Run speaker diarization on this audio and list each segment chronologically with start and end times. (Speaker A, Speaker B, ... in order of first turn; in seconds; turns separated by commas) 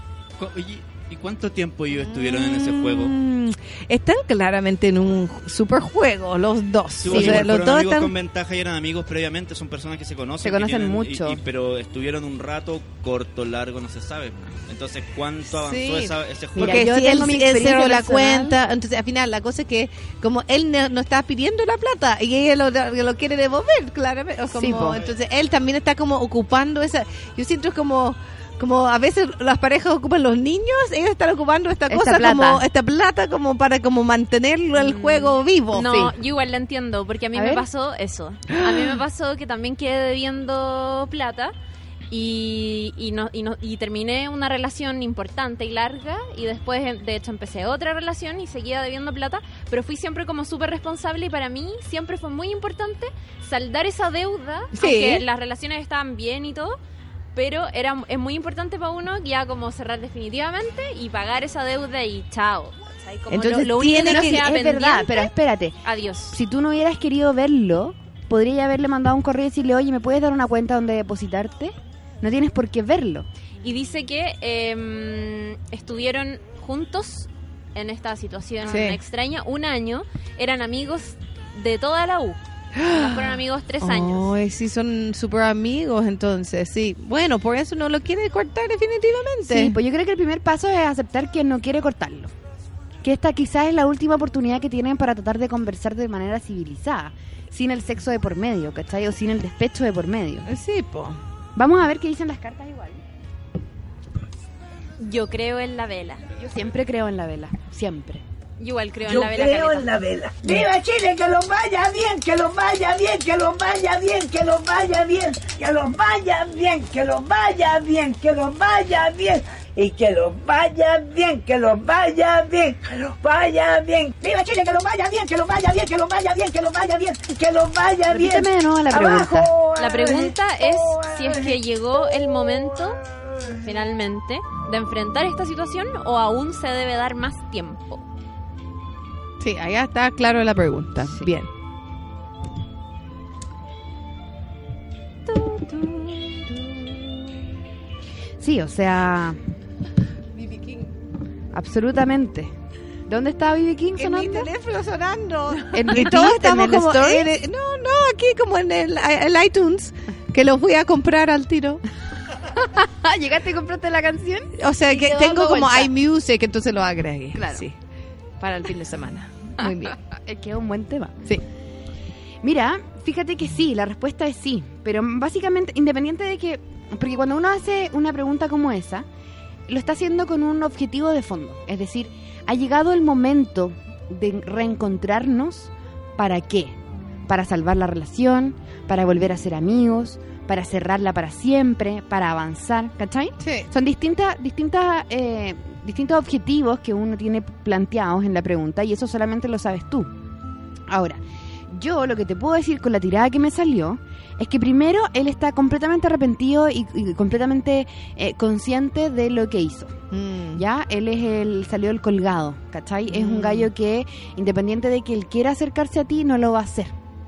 Speaker A: 0.4-3.1, Speaker B: 2.1-8.1, Speaker A: 7.0-17.1, Speaker C: 7.1-7.5, Speaker C: 10.4-11.4, Speaker B: 15.5-35.9, Speaker C: 16.6-18.6, Speaker C: 24.5-25.0, Speaker C: 31.9-32.6, Speaker C: 34.8-36.1, Speaker D: 35.7-41.5, Speaker C: 37.3-37.6, Speaker B: 38.6-39.0, Speaker D: 42.1-56.8, Speaker B: 54.7-55.2, Speaker D: 57.3-65.3, Speaker B: 63.3-64.4, Speaker C: 64.0-65.8, Speaker D: 65.8-66.4, Speaker C: 66.3-73.3, Speaker D: 73.6-82.4, Speaker B: 78.6-79.0, Speaker B: 82.8-89.7, Speaker D: 82.9-84.3, Speaker C: 89.5-92.3, Speaker C: 93.0-100.5, Speaker B: 100.5-101.2, Speaker C: 101.5-103.0, Speaker D: 105.0-106.2, Speaker C: 106.4-108.2, Speaker D: 108.6-109.9, Speaker E: 109.0-131.5, Speaker C: 128.1-129.5, Speaker D: 129.8-133.0, Speaker D: 133.6-138.0, Speaker B: 139.4-141.5, Speaker D: 145.3-146.9, Speaker C: 148.4-149.4, Speaker B: 150.4-150.8, Speaker C: 151.5-152.5, Speaker C: 153.1-154.5, Speaker B: 154.0-161.8, Speaker C: 155.7-157.3, Speaker C: 162.5-165.9, Speaker B: 164.6-167.8, Speaker C: 167.3-167.7, Speaker B: 168.4-170.0, Speaker C: 169.6-171.4, Speaker C: 172.4-179.1, Speaker C: 179.7-186.8, Speaker C: 187.3-200.1, Speaker B: 193.4-193.7, Speaker C: 200.9-209.9, Speaker B: 210.1-210.6, Speaker C: 210.5-216.9, Speaker B: 213.1-213.7